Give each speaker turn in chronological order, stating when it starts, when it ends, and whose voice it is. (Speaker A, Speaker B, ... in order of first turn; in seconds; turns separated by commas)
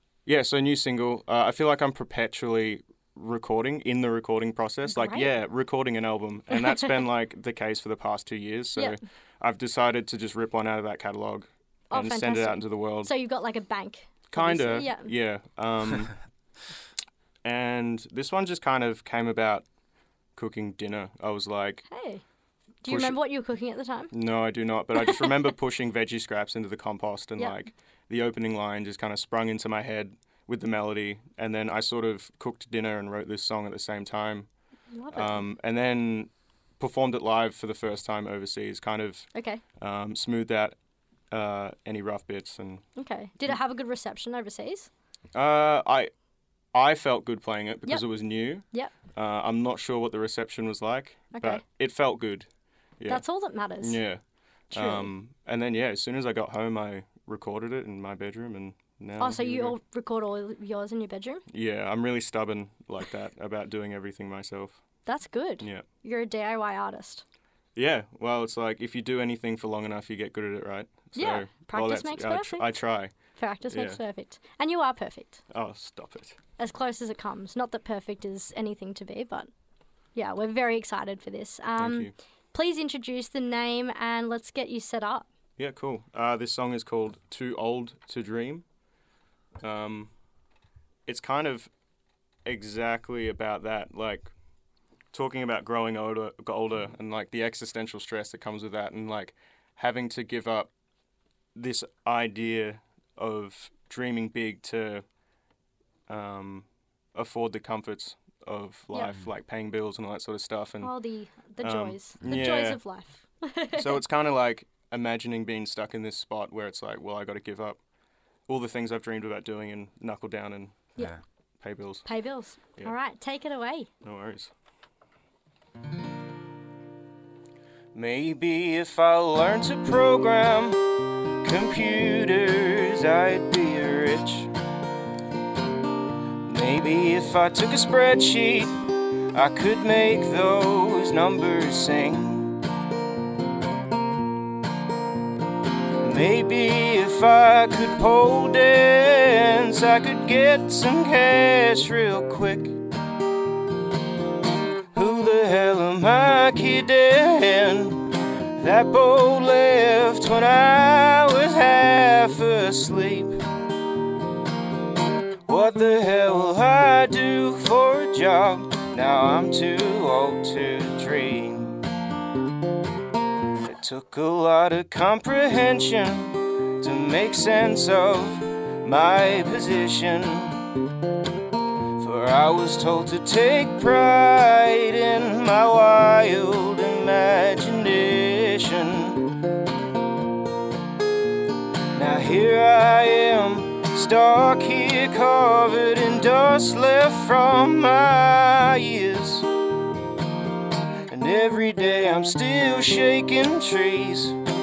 Speaker A: 0.2-13.1, Speaker B: 4.8-5.3, Speaker B: 6.5-6.9, Speaker B: 11.9-15.1, Speaker A: 14.3-16.1, Speaker A: 17.4-19.6, Speaker A: 20.3-21.9, Speaker B: 21.9-22.2, Speaker B: 22.8-24.1, Speaker A: 22.9-23.2, Speaker A: 24.1-34.5, Speaker B: 25.0-25.3, Speaker B: 34.9-35.4, Speaker A: 35.1-39.3, Speaker B: 39.3-39.6, Speaker A: 39.8-40.7, Speaker A: 41.3-42.8, Speaker B: 43.0-44.9, Speaker A: 45.3-46.1, Speaker A: 46.7-52.5, Speaker B: 51.3-51.6, Speaker B: 53.1-54.0, Speaker A: 53.8-54.2, Speaker A: 54.7-59.8, Speaker B: 54.7-55.1, Speaker B: 59.2-61.4, Speaker A: 61.5-64.8, Speaker B: 65.0-67.2, Speaker A: 67.7-73.1, Speaker B: 71.1-72.7, Speaker B: 73.4-75.4, Speaker A: 73.7-74.0, Speaker A: 75.5-76.4, Speaker B: 76.6-79.5, Speaker B: 80.1-85.3, Speaker A: 81.8-82.1, Speaker A: 85.6-88.6, Speaker A: 89.6-90.1, Speaker A: 91.1-91.7, Speaker A: 92.4-94.3, Speaker A: 95.1-100.7, Speaker A: 101.5-105.0, Speaker A: 106.1-110.9, Speaker B: 110.8-114.0, Speaker A: 111.6-112.8, Speaker A: 113.7-117.8, Speaker A: 118.5-120.9, Speaker A: 121.6-122.1, Speaker B: 122.0-123.9, Speaker A: 124.0-124.5, Speaker A: 127.9-134.5, Speaker A: 136.4-142.6, Speaker A: 146.0-152.8, Speaker A: 154.9-163.4, Speaker A: 165.5-171.8, Speaker A: 173.6-180.7, Speaker A: 182.0-189.3, Speaker A: 191.9-199.5, Speaker A: 201.1-204.4